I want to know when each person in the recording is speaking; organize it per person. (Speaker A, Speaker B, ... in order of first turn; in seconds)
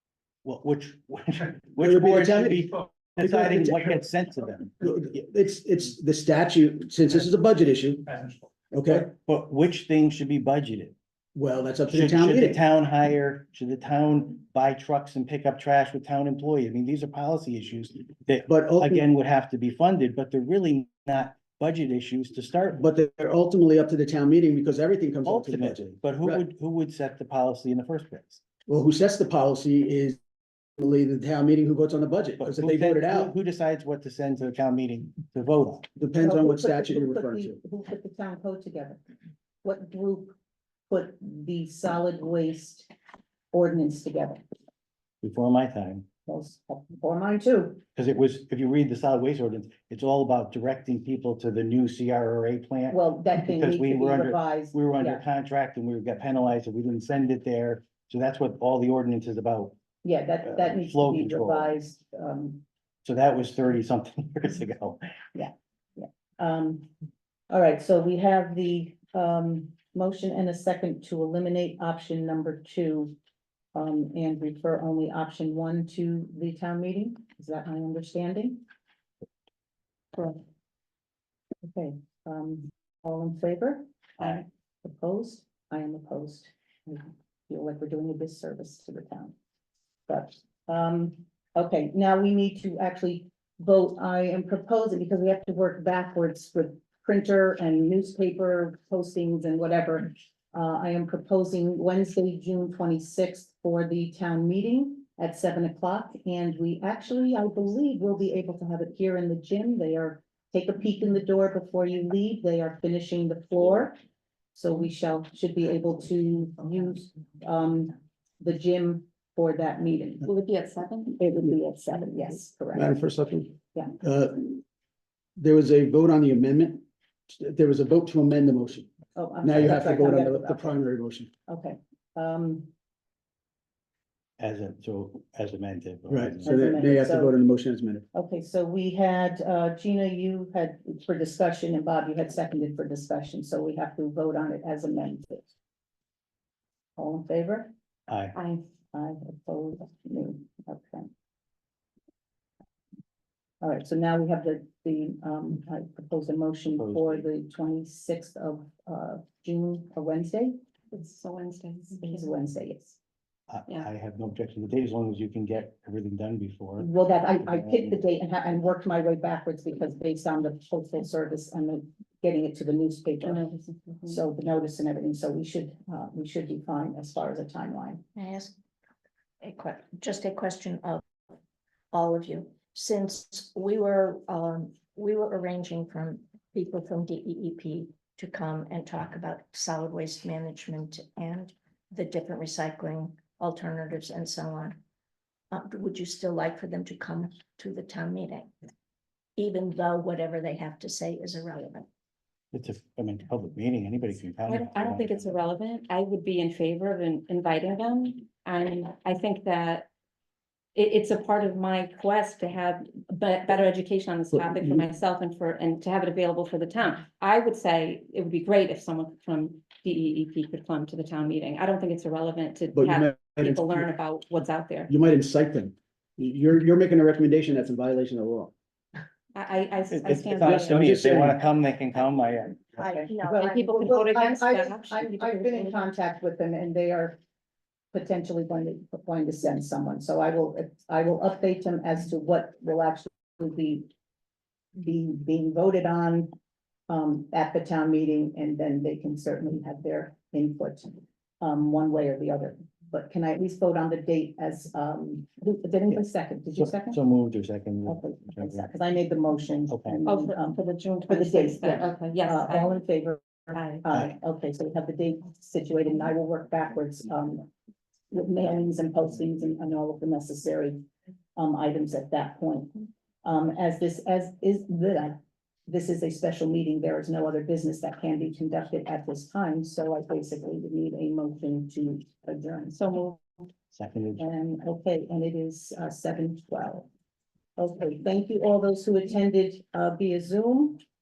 Speaker A: 0.4-4.8, 8.9-10.9, 11.9-22.8, 25.2-28.4, 32.4-35.9, 45.2-46.0, 48.0-59.8, 60.4-61.8, 63.0-65.0, 134.4-136.7, 148.1-148.4, 156.8-157.2, 163.5-166.9, 167.5-168.0, 202.5-205.3, 229.9-232.7, 256.5-258.7, 259.7-260.1, 263.9-264.1, 283.7-284.2
Speaker B: 1.8-4.0, 4.8-9.1, 11.3-12.6, 18.5-19.0, 22.8-26.4, 28.7-30.2, 30.8-33.3, 36.0-37.6, 122.8-124.6, 125.4-128.9, 129.4-131.3, 136.1-138.0, 214.4-214.8, 222.7-223.8, 224.9-228.5, 230.4-231.4
Speaker C: 36.2-39.0, 39.6-40.4, 40.9-42.9, 43.5-44.4, 46.3-47.8, 52.9-55.2, 60.0-62.6, 65.3-66.9, 67.5-73.1, 73.7-78.6, 81.6-89.3, 90.1-114.0, 114.5-120.3, 121.2-123.0, 129.2-130.8, 131.5-132.7, 136.4-137.3, 138.1-145.5, 147.0-147.7, 148.9-151.1, 153.6-160.6, 162.0-163.0, 166.8-173.4, 174.1-178.0, 232.8-237.2, 237.9-243.9, 244.8-246.3, 246.9-257.0, 257.9-267.5, 268.1-270.8, 271.4-282.8, 284.2-286.9, 287.6-290.8
Speaker D: 80.1-80.4, 120.2-121.2, 148.3-148.6, 160.9-162.3, 173.2-174.2, 204.4-209.9, 210.7-224.9, 229.3-231.2, 233.2-235.8, 260.1-262.8, 263.5-263.8, 282.7-283.4
Speaker E: 178.1-178.5, 179.4-181.0, 181.9-194.8, 195.5-198.5, 199.4-201.8, 232.7-233.8